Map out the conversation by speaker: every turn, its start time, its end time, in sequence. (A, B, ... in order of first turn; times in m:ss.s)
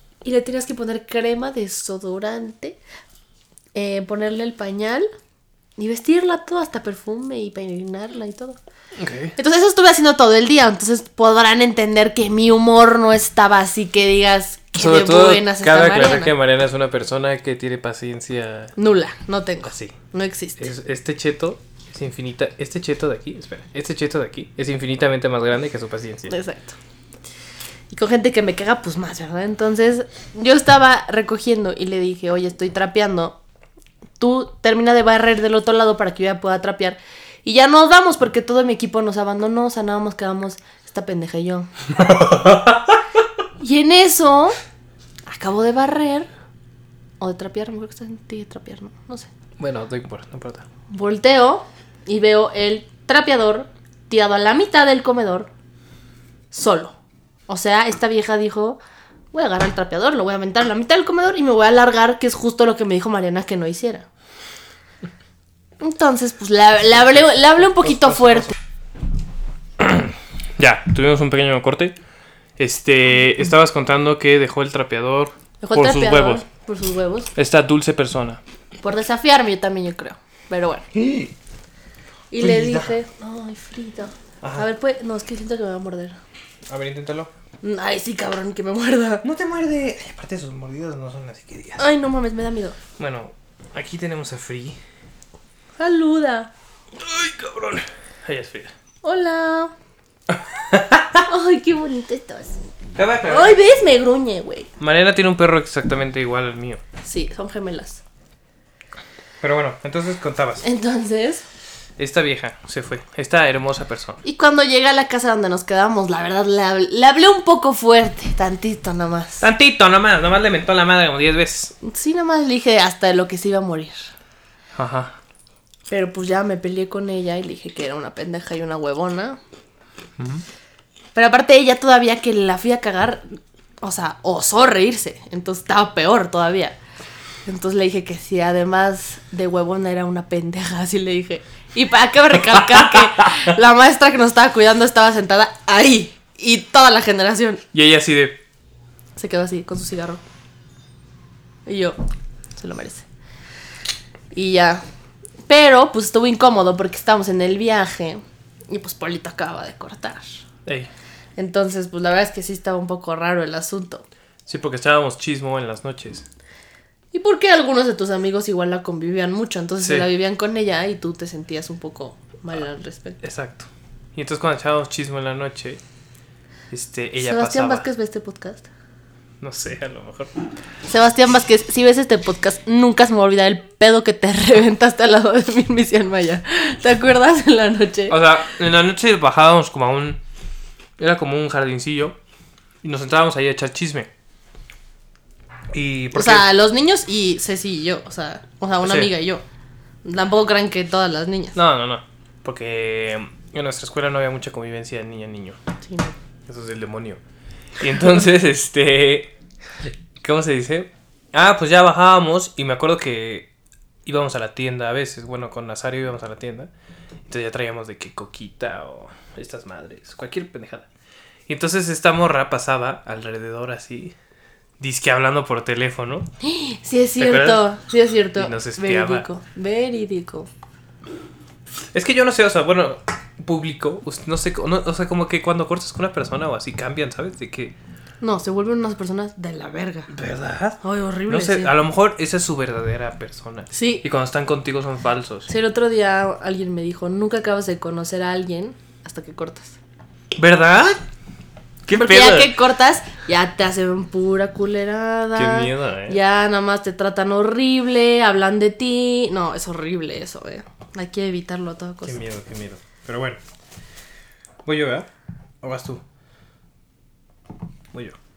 0:00.2-0:02.8 A
0:03.7-0:05.1 A
0:05.8-0:08.6 A
0:09.0-0:09.3 B
0:09.4-0:16.3 A
0:14.8-0:18.7 B
0:18.8-0:20.7 A
0:19.6-0:20.0 B
0:20.6-0:26.3 B
0:26.3-0:26.8 A
0:27.9-0:33.4 A
0:34.2-0:41.7 A
0:42.0-0:43.0 B
0:43.6-0:44.6 A
0:45.3-0:46.3 A
0:47.2-0:49.3 A
0:49.6-0:50.6 B
0:50.9-0:55.5 A
0:56.5-0:57.0 A
0:57.5-0:58.8 A
0:59.3-1:04.1 A
1:05.8-1:08.5 A
1:07.8-1:08.5 B
1:09.8-1:12.0 B
1:12.6-1:16.4 B
1:15.6-1:17.3 A
1:17.4-1:18.4 B
1:18.8-1:20.9 A
1:20.9-1:21.3 B
1:22.3-1:26.2 A
1:22.4-1:22.9 B
1:24.4-1:24.7 B
1:26.7-1:27.3 B
1:27.6-1:29.2 A
1:29.2-1:31.8 B
1:31.8-1:32.8 A
1:33.0-1:34.8 B
1:35.8-1:36.5 A
1:37.0-1:38.7 B
1:39.0-1:39.7 A
1:40.3-1:41.2 B
1:41.2-1:42.6 A
1:42.9-1:43.6 B
1:43.2-1:44.7 A
1:44.8-1:46.8 B
1:47.0-1:48.0 A
1:49.4-1:50.6 B
1:50.6-1:51.4 A
1:52.0-1:54.2 B
1:54.2-1:59.4 A
1:59.4-2:01.7 B
2:01.8-2:04.1 A
2:04.7-2:05.2 B
2:05.9-2:09.4 A
2:10.2-2:10.4 B
2:11.1-2:16.8 A
2:17.4-2:27.6 A
2:22.5-2:23.5 B
2:27.7-2:28.4 B
2:29.2-2:30.2 A
2:31.6-2:32.0 A
2:32.6-2:33.0 A
2:34.3-2:34.8 A
2:35.5-2:40.4 A
2:41.4-2:44.0 A
2:44.4-2:46.2 B
2:47.1-2:53.2 A
2:49.8-2:50.1 B
2:53.2-2:55.8 B
2:56.7-2:57.9 B
2:57.2-2:58.7 A
2:59.4-3:00.3 B
3:00.8-3:08.2 A
3:08.1-3:10.2 B
3:11.0-3:12.2 B
3:12.8-3:14.1 B
3:15.7-3:16.5 B
3:16.1-3:19.4 A
3:18.8-3:19.1 B
3:20.0-3:21.6 A
3:21.5-3:25.6 B
3:25.8-3:26.1 A
3:26.4-3:27.2 B
3:27.8-3:29.3 B
3:30.2-3:33.5 B
3:34.0-3:36.7 B
3:37.3-3:40.9 B
3:41.5-3:44.1 B
3:44.8-3:46.3 B
3:46.4-3:50.5 A
3:47.2-3:47.7 B
3:48.3-3:49.3 B
3:51.9-3:57.7 B
3:58.2-4:00.1 A
4:00.1-4:05.5 B
4:00.8-4:01.7 A
4:03.7-4:04.0 A
4:05.5-4:09.8 A
4:10.4-4:11.0 B
4:11.8-4:12.6 B
4:11.9-4:22.2 A
4:15.3-4:16.2 B
4:22.0-4:23.4 B
4:24.6-4:25.1 B
4:25.6-4:26.0 B